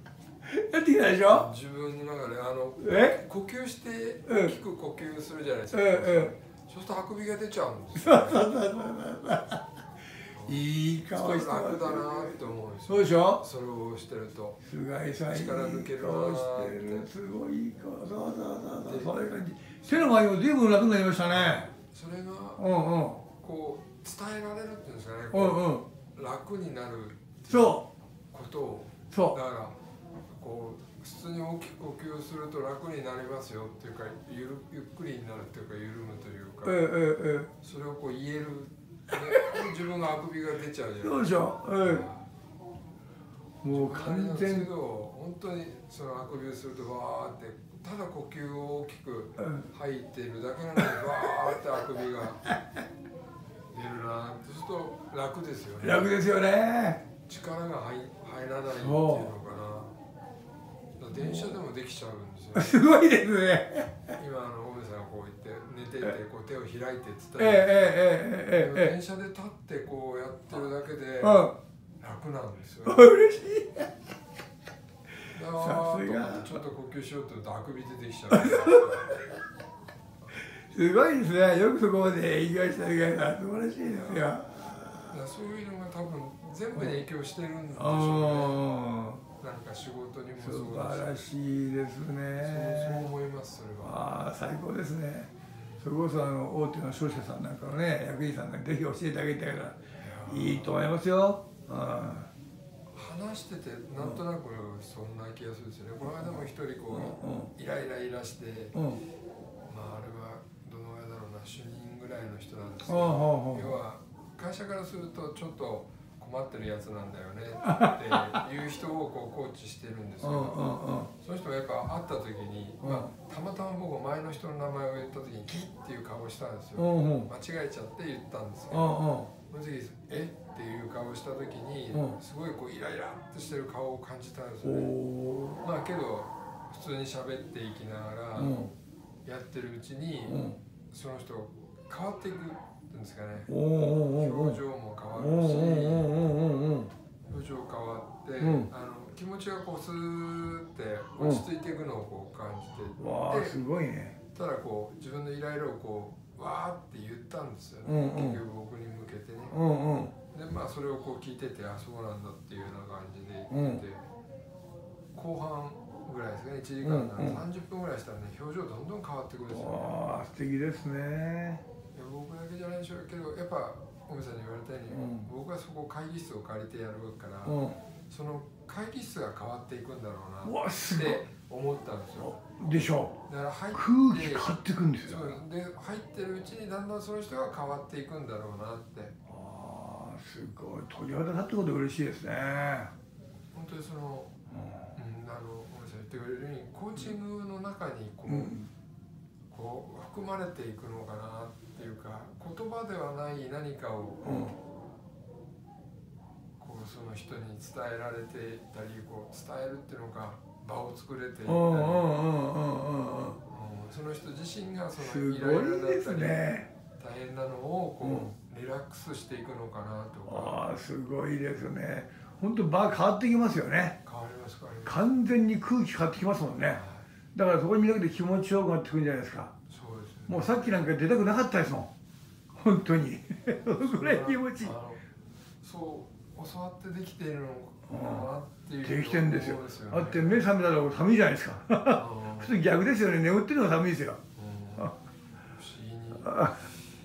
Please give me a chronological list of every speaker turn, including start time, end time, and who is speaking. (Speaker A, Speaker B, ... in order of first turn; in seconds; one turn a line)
Speaker A: 0.5-1.5
Speaker B: 1.3-8.5
Speaker A: 2.8-3.2
Speaker A: 4.3-4.5
Speaker A: 5.7-6.3
Speaker A: 8.0-9.6
Speaker B: 10.3-14.6
Speaker A: 10.5-13.4
Speaker A: 14.6-21.7
Speaker B: 15.3-17.1
Speaker B: 18.8-19.1
Speaker B: 19.8-20.2
Speaker B: 21.3-22.7
Speaker A: 22.6-23.2
Speaker B: 23.2-36.8
Speaker A: 25.3-25.9
Speaker A: 27.5-27.9
Speaker A: 36.6-37.5
Speaker B: 37.6-42.3
Speaker A: 41.0-42.1
Speaker A: 43.6-44.7
Speaker B: 43.7-52.5
Speaker B: 53.7-56.1
Speaker A: 55.8-57.0
Speaker B: 57.2-59.9
Speaker A: 58.7-59.3
Speaker B: 61.0-62.8
Speaker A: 61.1-61.6
Speaker A: 62.5-64.0
Speaker B: 64.2-71.5
Speaker A: 67.4-68.9
Speaker A: 71.2-71.5
Speaker B: 72.0-73.2
Speaker A: 72.9-73.9
Speaker B: 75.3-79.2
Speaker A: 75.6-76.6
Speaker A: 78.3-79.1
Speaker A: 80.7-85.1
Speaker B: 85.1-88.6
Speaker A: 87.7-89.2
Speaker B: 89.4-91.2
Speaker A: 90.4-93.1
Speaker B: 92.4-94.0
Speaker A: 93.8-102.3
Speaker B: 95.5-95.8
Speaker B: 100.0-100.8
Speaker B: 102.9-108.8
Speaker A: 106.9-107.5
Speaker A: 108.8-109.0
Speaker B: 109.7-128.9
Speaker A: 112.9-113.7
Speaker A: 117.7-118.4
Speaker A: 120.2-121.1
Speaker A: 122.8-123.1
Speaker A: 126.8-127.3
Speaker A: 128.7-129.3
Speaker B: 129.5-134.9
Speaker A: 134.6-135.6
Speaker B: 135.6-143.5
Speaker A: 138.3-138.7
Speaker A: 140.3-140.6
Speaker A: 143.5-144.6
Speaker B: 144.1-146.2
Speaker A: 145.1-146.9
Speaker B: 147.3-153.6
Speaker A: 148.4-148.7
Speaker A: 151.2-151.4
Speaker A: 153.0-154.2
Speaker B: 154.3-159.6
Speaker A: 157.8-158.4
Speaker A: 159.5-160.1
Speaker B: 160.3-164.0
Speaker A: 163.5-163.8
Speaker B: 165.1-170.0
Speaker A: 166.8-167.4
Speaker A: 169.5-171.6
Speaker B: 171.9-177.6
Speaker A: 174.9-175.3
Speaker A: 177.4-177.8
Speaker B: 178.1-182.4
Speaker A: 180.4-181.2
Speaker A: 182.2-183.2
Speaker B: 183.3-189.2
Speaker A: 183.7-185.4
Speaker A: 189.3-192.9
Speaker B: 193.5-194.3
Speaker A: 194.5-194.9
Speaker B: 194.9-198.6
Speaker A: 198.3-198.7
Speaker B: 199.5-204.5
Speaker A: 204.2-204.5
Speaker B: 206.6-212.1
Speaker A: 211.5-213.4
Speaker B: 213.5-216.4
Speaker A: 215.0-216.7
Speaker B: 217.0-220.6
Speaker A: 218.0-218.3
Speaker A: 220.3-224.0
Speaker B: 224.0-225.0
Speaker A: 224.8-226.8
Speaker B: 226.6-227.1
Speaker A: 227.3-229.5
Speaker B: 229.7-230.8
Speaker A: 230.3-231.9
Speaker A: 232.5-234.7
Speaker B: 233.8-235.0
Speaker B: 235.6-240.5
Speaker A: 237.9-238.3
Speaker A: 238.8-244.2
Speaker B: 241.9-242.5
Speaker B: 244.3-245.0
Speaker B: 245.5-246.6
Speaker A: 246.2-246.6